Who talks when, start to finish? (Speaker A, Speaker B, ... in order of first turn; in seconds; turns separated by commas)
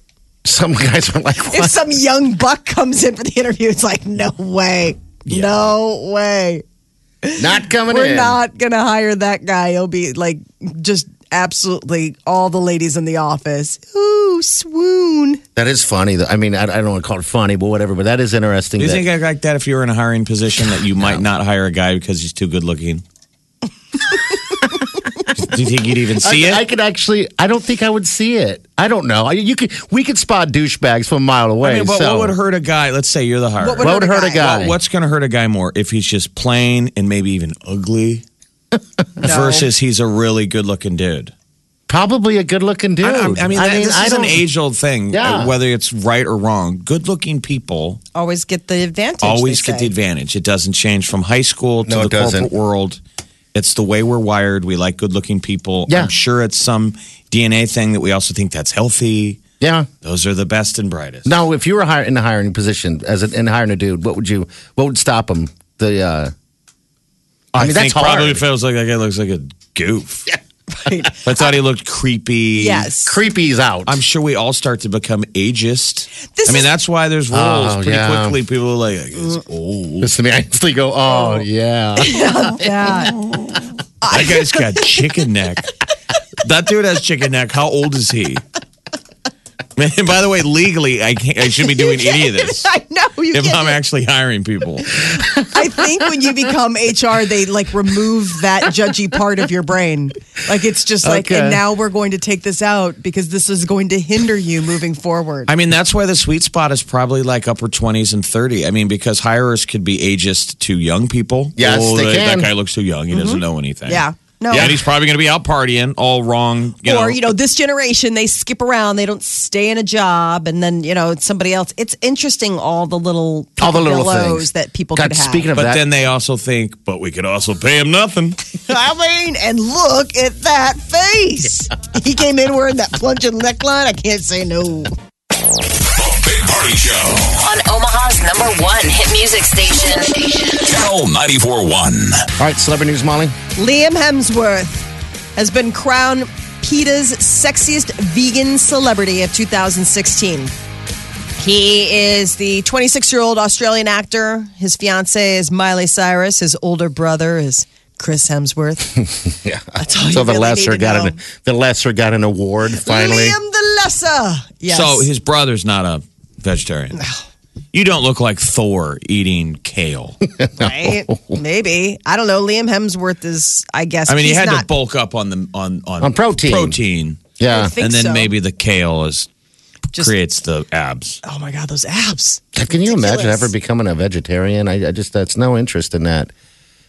Speaker A: 0.4-1.8, Speaker B: 1.4-6.6, Speaker B: 7.2-15.4, Speaker A: 7.4-8.4, Speaker A: 15.6-19.1, Speaker C: 18.8-23.0, Speaker C: 25.4-26.6, Speaker A: 26.2-32.4, Speaker C: 31.6-38.2, Speaker B: 33.6-34.5, Speaker A: 33.8-34.8, Speaker B: 39.2-39.7, Speaker C: 39.2-41.3, Speaker A: 41.9-44.4, Speaker C: 43.0-48.0, Speaker A: 45.1-45.5, Speaker B: 48.1-49.9, Speaker C: 49.2-53.0, Speaker A: 51.9-52.5, Speaker C: 53.5-59.4, Speaker A: 59.6-59.9, Speaker C: 60.0-61.3, Speaker A: 61.2-66.3, Speaker C: 67.5-70.3, Speaker A: 67.6-68.4, Speaker B: 70.7-71.5, Speaker C: 71.2-72.9, Speaker B: 72.6-73.2, Speaker A: 73.0-74.0, Speaker C: 73.8-80.1, Speaker B: 76.3-76.7, Speaker A: 77.3-78.4, Speaker A: 80.0-82.7, Speaker B: 81.1-81.4, Speaker B: 82.0-83.2, Speaker B: 84.0-84.9, Speaker C: 84.1-85.7, Speaker C: 86.4-88.4, Speaker C: 89.8-92.7, Speaker B: 91.8-93.8, Speaker C: 93.3-95.3, Speaker B: 95.3-105.5, Speaker A: 101.0-101.6, Speaker C: 105.5-117.3, Speaker A: 111.6-112.5, Speaker B: 113.1-114.7, Speaker B: 116.8-125.5, Speaker A: 123.6-125.8, Speaker C: 125.5-128.4, Speaker B: 128.7-134.9, Speaker D: 135.9-137.4, Speaker E: 137.4-140.6, Speaker D: 140.6-142.2, Speaker A: 142.4-143.3, Speaker B: 143.6-150.5, Speaker B: 151.4-159.0, Speaker A: 159.1-163.4, Speaker B: 159.8-161.2, Speaker B: 162.7-165.1, Speaker C: 164.7-167.0, Speaker B: 166.9-167.2, Speaker C: 167.7-170.2, Speaker A: 170.4-171.4, Speaker B: 170.6-174.7, Speaker C: 174.1-179.3, Speaker A: 176.0-176.8, Speaker A: 177.4-177.7, Speaker B: 177.4-178.3, Speaker C: 180.0-181.2, Speaker B: 181.2-183.5, Speaker A: 182.5-186.3